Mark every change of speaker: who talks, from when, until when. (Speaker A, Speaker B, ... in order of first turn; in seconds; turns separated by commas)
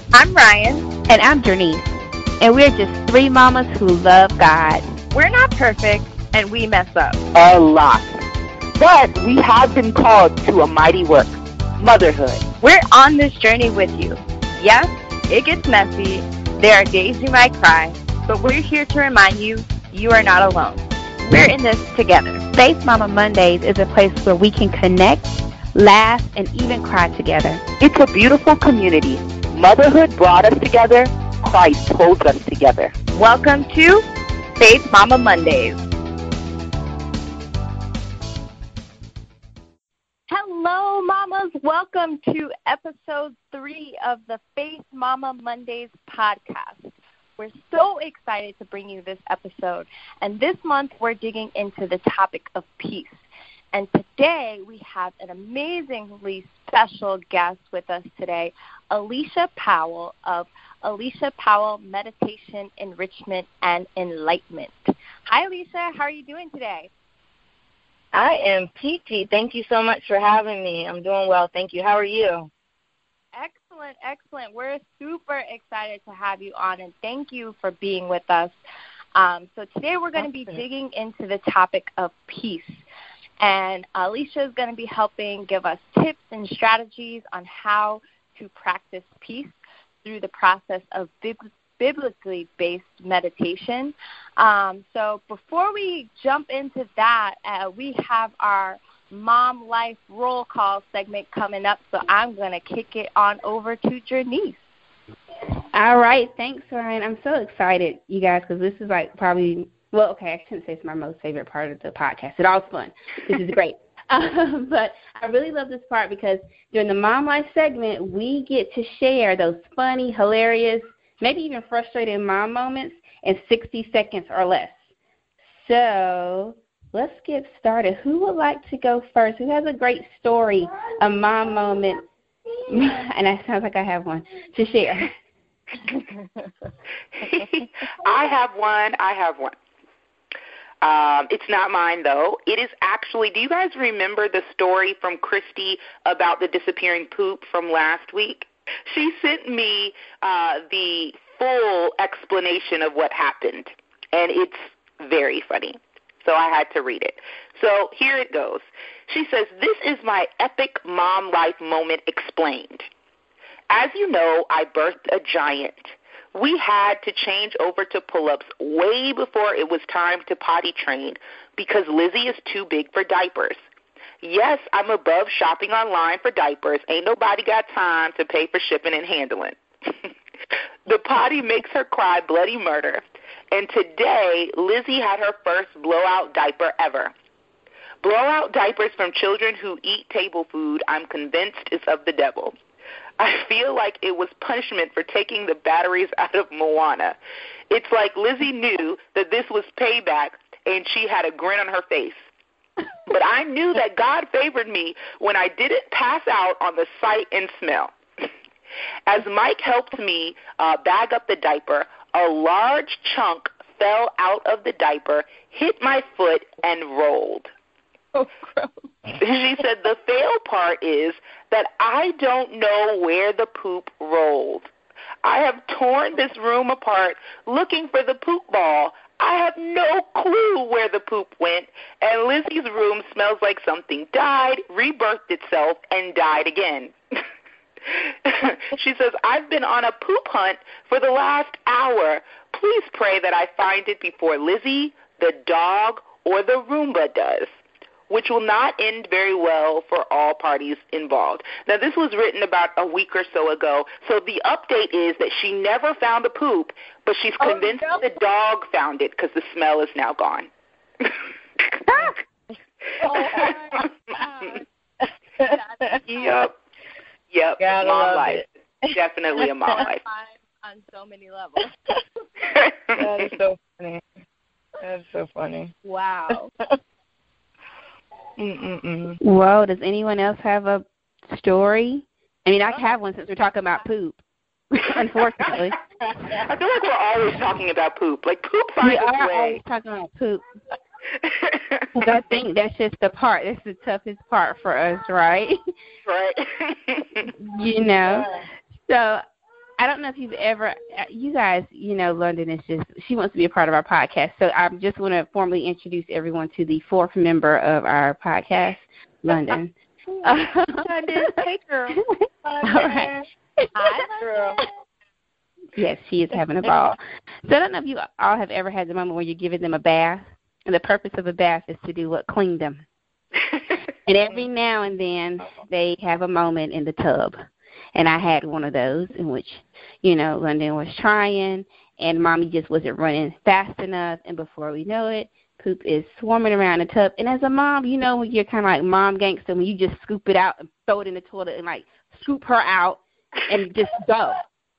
Speaker A: 0.1-0.9, Speaker B: 1.1-4.8, Speaker A: 5.1-7.2, Speaker C: 7.4-7.7, Speaker D: 7.4-8.1, Speaker D: 9.0-11.3, Speaker C: 11.8-12.4, Speaker A: 12.6-22.4, Speaker B: 22.5-27.6, Speaker D: 27.8-32.9, Speaker C: 27.9-28.1, Speaker A: 33.1-34.0, Speaker A: 34.6-35.8, Speaker A: 40.3-66.9, Speaker E: 68.1-72.5, Speaker A: 73.3-78.5, Speaker A: 79.1-82.8, Speaker A: 83.4-104.6, Speaker B: 105.7-124.8, Speaker B: 125.5-132.1, Speaker B: 132.7-135.1, Speaker C: 137.2-139.5, Speaker C: 140.8-162.9, Speaker C: 163.7-173.6, Speaker C: 174.2-180.1, Speaker C: 180.8-187.1, Speaker C: 188.0-192.6, Speaker C: 193.2-197.2, Speaker C: 197.7-202.2, Speaker C: 203.1-207.9, Speaker C: 209.1-217.5, Speaker A: 218.1-218.9, Speaker C: 219.1-224.7, Speaker C: 225.2-236.9, Speaker C: 237.9-247.5, Speaker C: 248.1-260.5, Speaker A: 257.4-258.0, Speaker C: 261.0-262.1, Speaker A: 263.0-264.6, Speaker C: 263.2-263.5, Speaker E: 265.4-265.9, Speaker A: 265.4-266.4, Speaker C: 266.1-266.5, Speaker C: 267.3-270.0, Speaker E: 267.6-268.9, Speaker A: 269.8-271.7, Speaker C: 272.5-273.0, Speaker E: 272.9-274.0, Speaker E: 274.8-275.7, Speaker A: 275.8-276.5, Speaker E: 278.4-279.2, Speaker B: 279.2-284.2, Speaker B: 284.7-285.8, Speaker C: 286.3-289.6, Speaker B: 288.8-290.4, Speaker C: 291.2-291.9, Speaker B: 291.9-295.6, Speaker C: 296.1-297.3, Speaker B: 297.3-298.3, Speaker E: 298.1-298.4, Speaker B: 298.9-299.2, Speaker B: 299.8-311.2, Speaker A: 310.9-311.9, Speaker E: 312.4-313.2, Speaker B: 312.6-313.9, Speaker A: 313.8-314.6, Speaker E: 314.2-314.6, Speaker B: 315.8-322.8, Speaker B: 324.0-327.4, Speaker B: 327.9-344.4